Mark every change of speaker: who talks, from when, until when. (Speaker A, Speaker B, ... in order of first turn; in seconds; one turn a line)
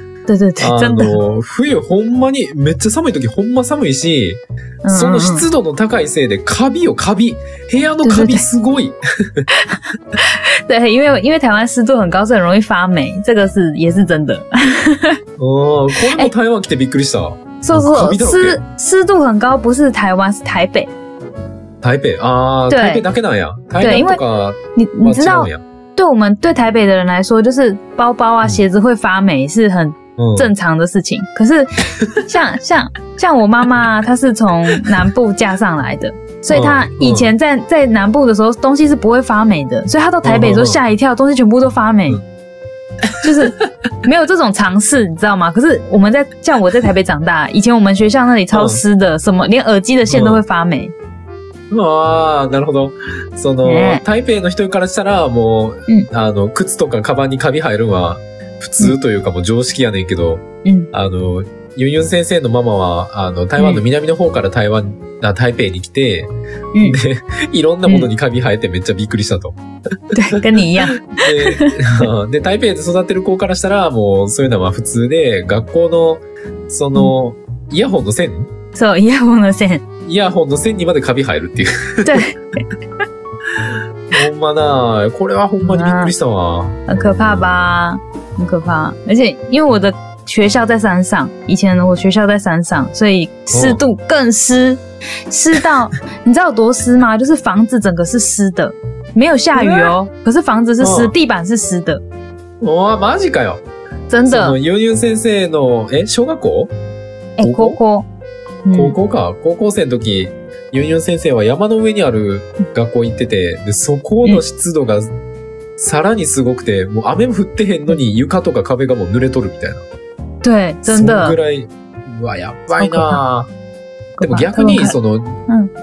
Speaker A: 0.3-1.2
Speaker B: 0.6-9.5
Speaker A: 4.8-5.4
Speaker A: 8.0-8.5
Speaker A: 9.5-15.2
Speaker B: 15.4-18.6
Speaker A: 15.9-16.3
Speaker A: 17.6-20.9
Speaker B: 21.8-25.6
Speaker A: 22.7-23.0
Speaker A: 23.8-24.2
Speaker A: 24.8-42.2
Speaker B: 30.2-30.5
Speaker B: 36.5-37.3
Speaker B: 40.2-40.8
Speaker B: 43.0-43.7
Speaker A: 43.2-50.9
Speaker B: 48.5-48.8
Speaker B: 50.1-50.4
Speaker B: 51.7-69.6
Speaker A: 53.6-54.0
Speaker A: 60.6-60.9
Speaker A: 63.6-63.8
Speaker B: 70.1-78.5
Speaker A: 70.1-71.8
Speaker A: 78.7-79.8
Speaker B: 80.0-82.3
Speaker A: 82.0-82.6
Speaker B: 83.6-87.5
Speaker A: 85.6-86.1
Speaker A: 86.9-102.0
Speaker B: 93.5-93.8
Speaker B: 99.5-99.9
Speaker B: 100.8-101.1
Speaker B: 102.6-103.6
Speaker A: 104.1-104.6
Speaker B: 104.2-106.7
Speaker A: 107.4-108.1
Speaker B: 107.4-107.8
Speaker A: 108.6-108.9
Speaker B: 108.7-115.1
Speaker B: 115.8-119.8
Speaker A: 120.4-121.4
Speaker B: 120.8-123.5
Speaker A: 122.8-123.2
Speaker A: 124.2-125.0
Speaker B: 124.2-125.4